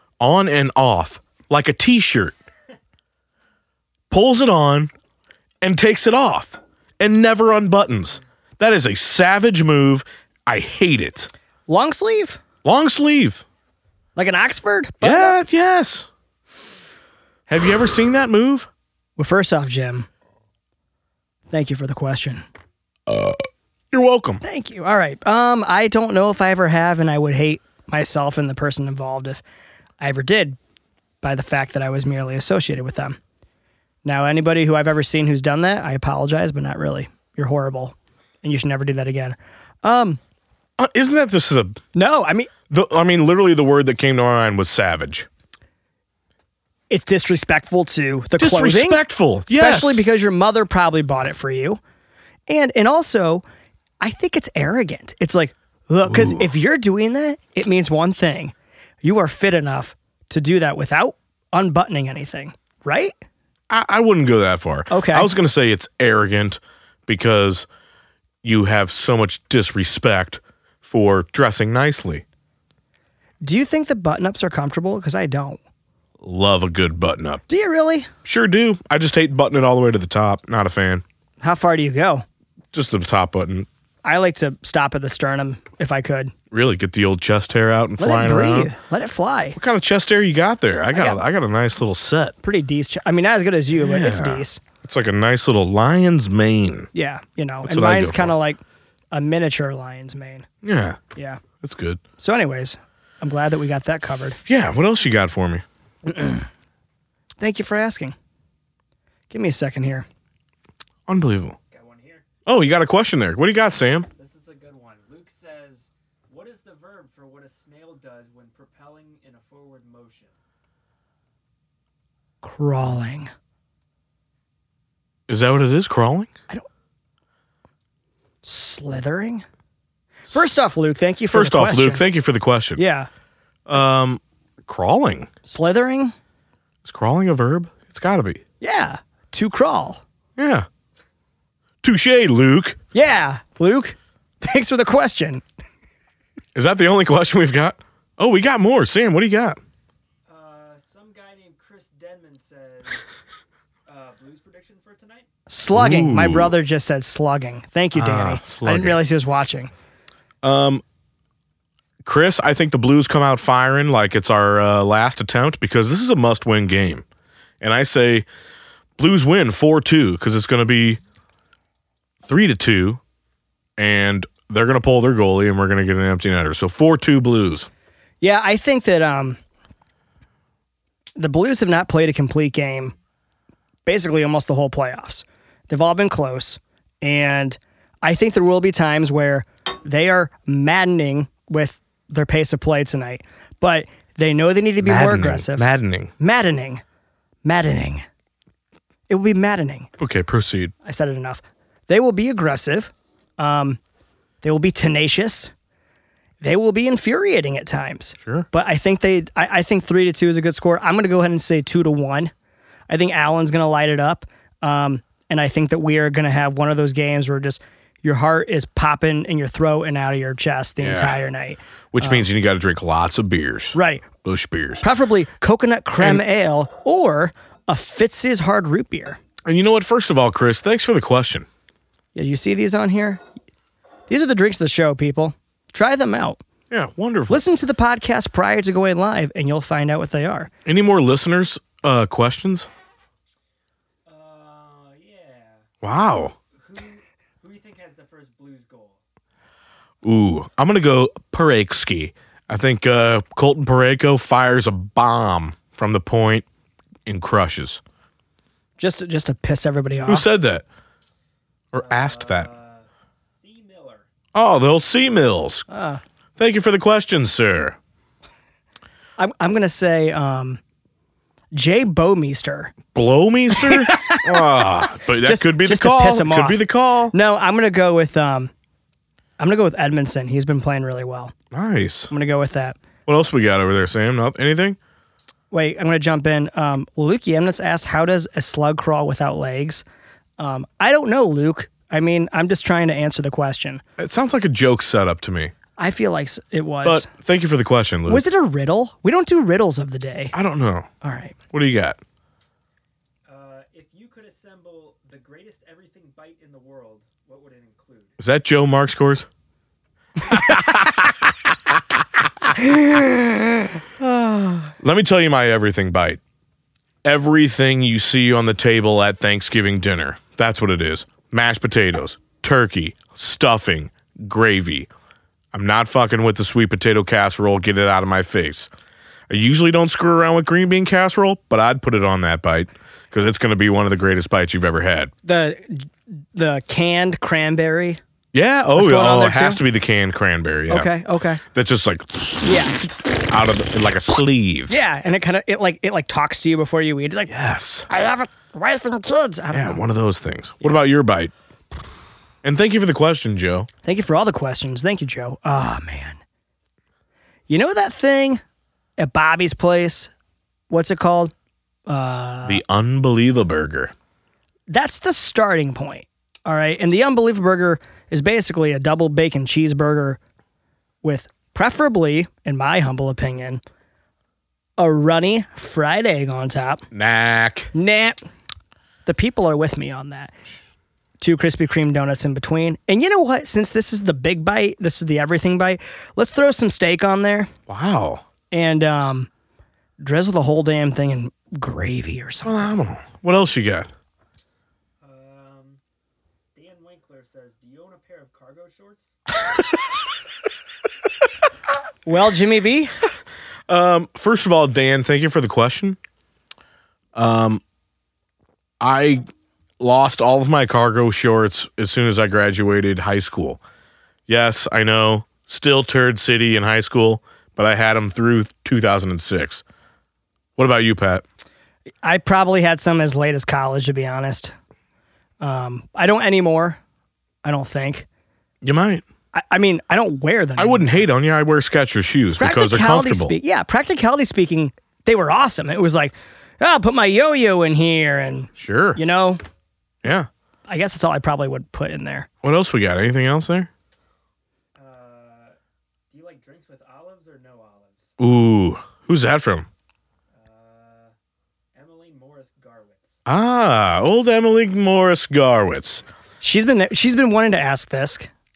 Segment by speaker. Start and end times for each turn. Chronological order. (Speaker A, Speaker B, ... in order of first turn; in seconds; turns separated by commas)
Speaker A: 0.2-2.4, Speaker A: 4.1-4.9, Speaker A: 5.6-11.3, Speaker B: 11.7-12.4, Speaker A: 12.6-13.4, Speaker B: 14.2-15.4, Speaker A: 15.0-16.1, Speaker A: 17.5-18.7, Speaker B: 19.2-20.1, Speaker B: 21.5-22.4, Speaker A: 23.1-24.4, Speaker B: 24.4-29.4, Speaker B: 30.0-30.6, Speaker B: 31.2-33.2, Speaker B: 34.0-40.2, Speaker A: 40.8-41.8, Speaker B: 42.0-42.5, Speaker A: 42.7-45.3, Speaker B: 46.9-51.8, Speaker A: 48.4-50.0, Speaker B: 52.5-53.4, Speaker B: 54.0-63.1, Speaker A: 56.0-56.5, Speaker A: 63.7-67.7, Speaker B: 64.9-65.3, Speaker A: 68.4-72.2, Speaker B: 73.4-75.6, Speaker A: 76.2-77.4, Speaker B: 77.5-78.1, Speaker A: 78.2-81.0, Speaker B: 81.4-82.2, Speaker A: 82.7-83.7, Speaker B: 84.0-86.3, Speaker A: 86.5-88.7, Speaker B: 88.0-89.6, Speaker A: 89.5-92.4, Speaker B: 90.9-91.2, Speaker B: 92.4-94.6, Speaker A: 93.8-96.9, Speaker B: 96.9-98.6, Speaker A: 97.6-98.3, Speaker B: 99.1-100.5, Speaker A: 100.6-101.0, Speaker B: 101.2-101.4, Speaker A: 101.6-102.0, Speaker B: 102.2-104.4, Speaker A: 104.5-105.6, Speaker B: 106.1-106.5, Speaker B: 107.4-108.2, Speaker B: 109.3-110.1, Speaker A: 111.1-111.6, Speaker C: 111.7-112.3, Speaker A: 112.5-114.1, Speaker C: 114.2-120.3, Speaker B: 122.4-123.3, Speaker A: 125.3-126.3, Speaker B: 128.4-129.4, Speaker B: 130.3-132.0, Speaker A: 131.3-132.8, Speaker B: 132.8-133.1, Speaker A: 133.7-135.3, Speaker B: 135.5-136.1, Speaker A: 136.8-138.4, Speaker B: 138.6-140.0, Speaker A: 140.4-140.7, Speaker A: 141.8-142.8, Speaker B: 142.9-145.4, Speaker A: 146.6-149.6, Speaker C: 150.3-153.2, Speaker C: 153.9-155.3, Speaker B: 155.5-159.7, Speaker A: 155.7-156.6, Speaker A: 157.9-159.0, Speaker A: 160.4-160.8, Speaker A: 162.0-167.1, Speaker A: 167.6-168.3, Speaker A: 169.0-171.0, Speaker A: 172.2-173.0, Speaker A: 173.8-177.7, Speaker B: 178.2-179.4, Speaker B: 181.2-182.9, Speaker B: 183.9-196.8, Speaker A: 194.8-196.1, Speaker B: 197.4-198.1, Speaker B: 199.1-199.9, Speaker A: 200.0-200.7, Speaker B: 200.8-203.8, Speaker B: 204.4-205.5, Speaker B: 206.4-212.3, Speaker B: 212.9-222.3, Speaker A: 220.8-221.2, Speaker A: 221.9-224.8, Speaker B: 223.7-224.1, Speaker B: 224.8-229.2, Speaker A: 226.0-226.2, Speaker A: 229.4-231.5, Speaker B: 232.2-233.2, Speaker B: 234.1-236.4, Speaker A: 236.7-237.4, Speaker B: 237.3-240.5, Speaker A: 240.7-242.7, Speaker C: 244.1-245.7, Speaker A: 245.8-246.3, Speaker C: 246.6-249.0, Speaker A: 250.0-256.4, Speaker A: 257.1-257.8, Speaker B: 258.8-260.3, Speaker A: 260.1-260.6, Speaker A: 261.7-262.5, Speaker C: 261.7-264.1, Speaker A: 264.4-265.7, Speaker B: 265.7-266.0, Speaker A: 266.4-267.8, Speaker B: 269.2-270.6, Speaker B: 271.5-272.8, Speaker A: 272.9-277.1, Speaker B: 273.5-276.6, Speaker B: 277.1-278.5, Speaker B: 279.4-281.3, Speaker A: 281.5-282.1, Speaker B: 282.1-282.8, Speaker A: 283.1-284.8, Speaker B: 285.5-289.8, Speaker B: 290.4-293.8, Speaker A: 294.0-295.5, Speaker B: 295.8-297.1, Speaker A: 296.8-298.2, Speaker B: 298.1-300.4, Speaker A: 300.3-300.9, Speaker B: 301.0-301.4, Speaker A: 301.5-302.0, Speaker C: 303.3-308.2, Speaker A: 308.2-309.3, Speaker A: 310.3-311.1, Speaker B: 312.6-314.7, Speaker A: 314.8-316.2, Speaker A: 317.0-324.9, Speaker A: 325.5-328.7, Speaker A: 329.3-335.1, Speaker B: 335.2-338.0, Speaker A: 338.3-340.9, Speaker B: 338.8-339.6, Speaker B: 340.7-341.4, Speaker A: 341.4-342.8, Speaker B: 342.4-342.8, Speaker A: 343.3-344.8, Speaker B: 344.7-347.3, Speaker A: 347.3-347.9, Speaker B: 347.9-349.8, Speaker A: 349.5-351.3, Speaker A: 352.4-353.7, Speaker B: 353.8-356.2, Speaker B: 357.5-358.4, Speaker B: 359.0-360.1, Speaker B: 360.7-361.3, Speaker B: 361.9-362.6, Speaker A: 362.4-363.9, Speaker B: 364.7-370.2, Speaker B: 371.0-373.6, Speaker B: 374.8-376.9, Speaker A: 376.9-377.7, Speaker B: 377.7-378.2, Speaker B: 379.1-380.3, Speaker B: 381.2-387.5, Speaker A: 387.7-388.2, Speaker B: 388.5-389.3, Speaker B: 390.0-392.7, Speaker A: 392.4-393.9, Speaker C: 395.0-395.8, Speaker C: 396.5-399.2, Speaker B: 402.1-402.9, Speaker A: 403.7-406.0, Speaker A: 407.1-407.6, Speaker A: 408.8-409.3, Speaker A: 409.8-413.6, Speaker A: 414.3-419.6, Speaker A: 420.6-421.2, Speaker B: 422.0-424.5, Speaker B: 425.4-426.8, Speaker B: 427.4-428.1, Speaker A: 428.6-429.0, Speaker B: 429.3-431.0, Speaker A: 430.6-433.4, Speaker B: 432.4-439.4, Speaker A: 438.6-439.0, Speaker B: 440.7-442.3, Speaker A: 442.4-443.7, Speaker C: 444.8-445.6, Speaker C: 446.1-448.1, Speaker A: 448.2-449.7, Speaker C: 450.3-451.1, Speaker C: 451.7-453.2, Speaker A: 453.3-456.0, Speaker B: 456.4-458.3